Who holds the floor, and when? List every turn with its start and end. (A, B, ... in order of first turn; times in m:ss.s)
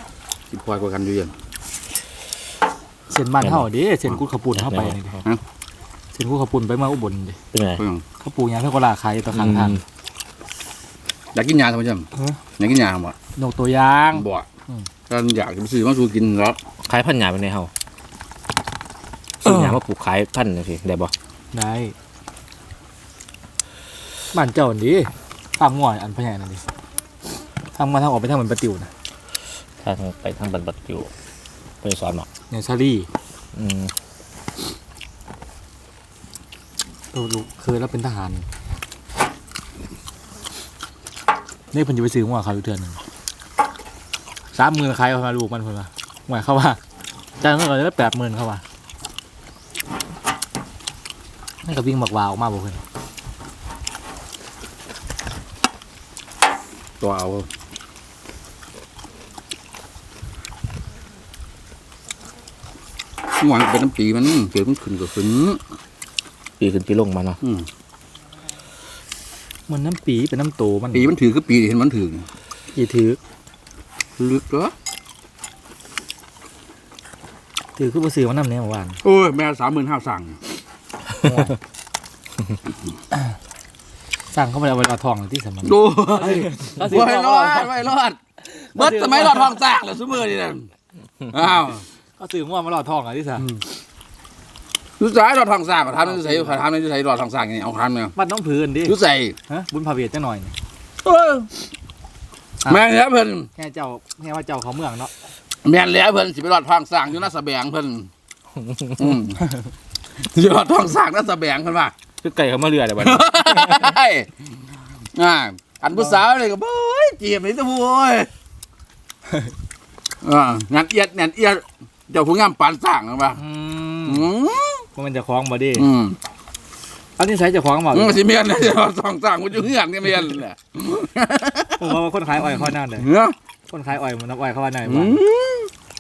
0:00.5-0:01.3 A
0:03.1-0:05.2 B
0:03.4-0:03.7 C
0:04.6-0:05.0 C
0:06.1-0:07.4 B
0:07.5-0:07.8 C
0:08.2-0:09.8 B
0:09.3-0:09.8 C
0:11.3-0:12.0 A
0:12.6-0:13.1 A
0:13.4-0:14.9 B
0:14.1-0:14.4 A
0:15.1-0:16.6 A
0:16.8-0:17.7 C
0:19.4-0:21.1 C
0:21.5-0:21.9 B
0:24.3-0:26.6 B
0:27.7-0:28.9 B
0:29.8-0:31.1 C
0:31.8-0:32.3 C
0:32.5-0:33.1 B
0:33.5-0:33.9 C
0:37.1-0:38.4 B
0:41.7-0:43.0 B
0:44.5-0:46.8 B
0:47.4-0:48.6 B
0:51.6-0:52.8 B
0:57.0-0:57.4 A
1:03.4-1:05.6 A
1:06.6-1:07.4 C
1:09.7-1:11.1 B
1:10.9-1:12.2 A
1:12.7-1:13.2 B
1:14.2-1:14.7 A
1:17.8-1:19.0 B
1:19.0-1:20.4 A
1:21.2-1:21.6 B
1:24.3-1:27.7 B
1:25.6-1:28.2 A
1:28.5-1:29.5 B
1:28.7-1:30.7 A
1:31.3-1:31.8 A
1:32.2-1:33.5 B
1:35.0-1:38.1 A
1:36.0-1:36.6 B
1:38.2-1:38.9 B
1:38.8-1:39.3 A
1:39.5-1:40.5 B
1:41.0-1:41.5 A
1:42.7-1:43.5 A
1:43.6-1:45.1 B
1:45.6-1:48.1 A
1:49.0-1:49.4 A
1:50.2-1:51.9 A
1:52.2-1:53.8 C
1:53.0-1:54.3 A
1:55.1-1:58.3 A
2:00.2-2:03.4 A
2:03.4-2:04.3 B
2:04.0-2:04.8 A
2:05.0-2:05.9 B
2:05.8-2:06.2 A
2:07.2-2:08.2 B
2:07.9-2:11.9 A
2:11.8-2:13.1 B
2:13.0-2:13.3 A
2:13.7-2:15.2 B
2:14.8-2:15.7 A